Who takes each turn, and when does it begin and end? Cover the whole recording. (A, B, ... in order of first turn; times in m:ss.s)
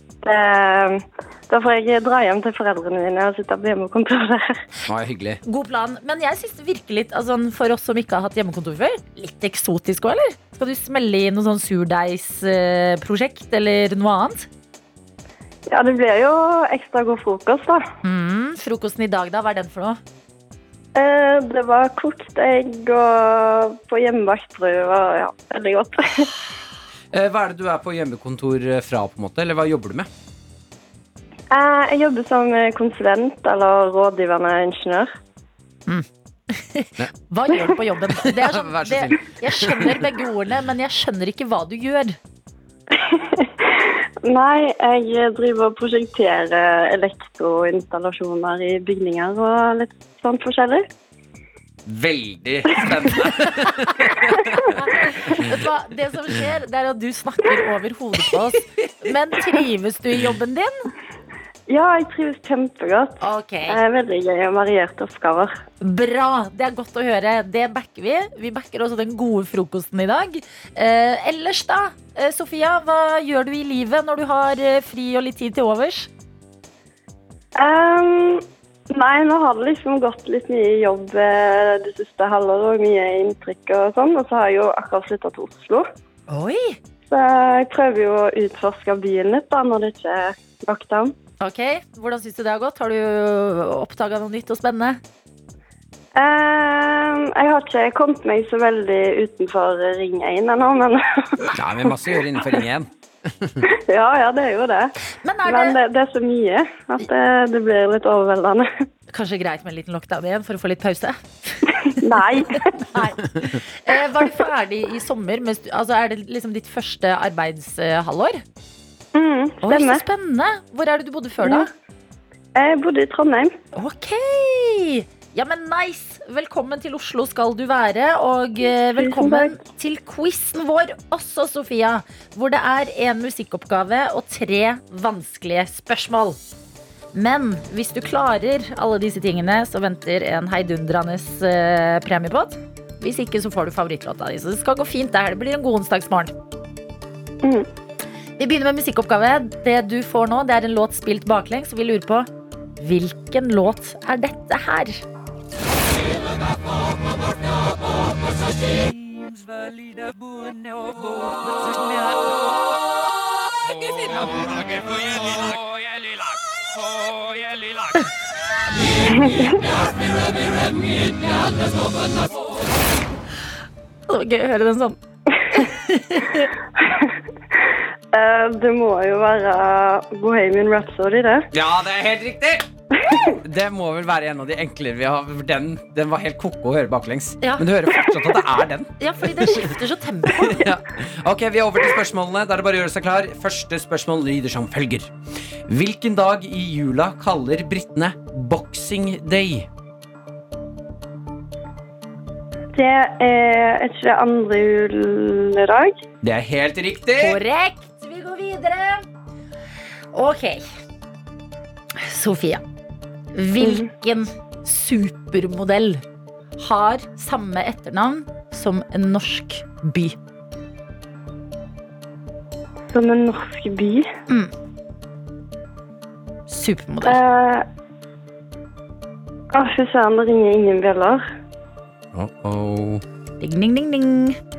0:00.2-0:04.6 A
0:04.9-0:05.4 B
0:05.4-0:14.5 C
0:15.7-0:17.8 A
0:18.0-0:20.0 C
0:21.0-0:26.3 A
0:27.1-0:30.1 B
0:31.5-0:35.1 A
0:35.9-0:42.2 C
0:38.2-0:40.0 B
0:42.9-0:50.9 A
0:51.9-0:54.7 B
0:53.4-0:53.7 C
0:54.7-1:00.9 C
1:01.7-1:05.5 A
1:03.2-1:03.8 C
1:05.8-1:16.1 C
1:17.6-1:25.9 A
1:26.3-1:26.8 C
1:27.1-1:31.2 A
1:31.4-1:35.0 C
1:36.2-1:41.6 A
1:41.5-1:43.6 B
1:43.6-1:45.0 A
1:45.2-1:45.8 C
1:45.5-1:48.7 A
1:49.1-1:58.4 C
1:52.0-1:52.8 A
1:59.2-2:00.0 A
1:59.6-2:01.7 C
2:01.4-2:01.7 A
2:02.6-2:03.6 A
2:03.7-2:16.4 C
2:09.0-2:09.6 A
2:17.1-2:26.3 C
2:27.4-2:27.7 A
2:28.4-2:32.3 C
2:32.8-2:35.0 C
2:49.1-2:49.6 A
2:54.1-2:55.0 C
2:55.5-2:56.5 C
2:56.8-2:57.1 A
2:58.1-3:01.5 A
3:01.5-3:02.7 B
3:03.4-3:09.8 B
3:09.0-3:10.7 C
3:10.4-3:15.1 B
3:15.7-3:19.7 B
3:22.7-3:26.0 A
3:26.2-3:27.4 B
3:27.2-3:29.1 C
3:30.1-3:30.7 C
3:32.0-3:32.6 C
3:33.3-3:36.0 C
3:33.6-3:33.9 A
3:36.6-3:40.2 C
3:42.9-3:44.1 A
3:46.5-3:47.2 C
3:47.0-3:47.7 A
3:49.5-3:51.2 A
3:52.1-3:53.0 B
3:53.4-3:54.4 C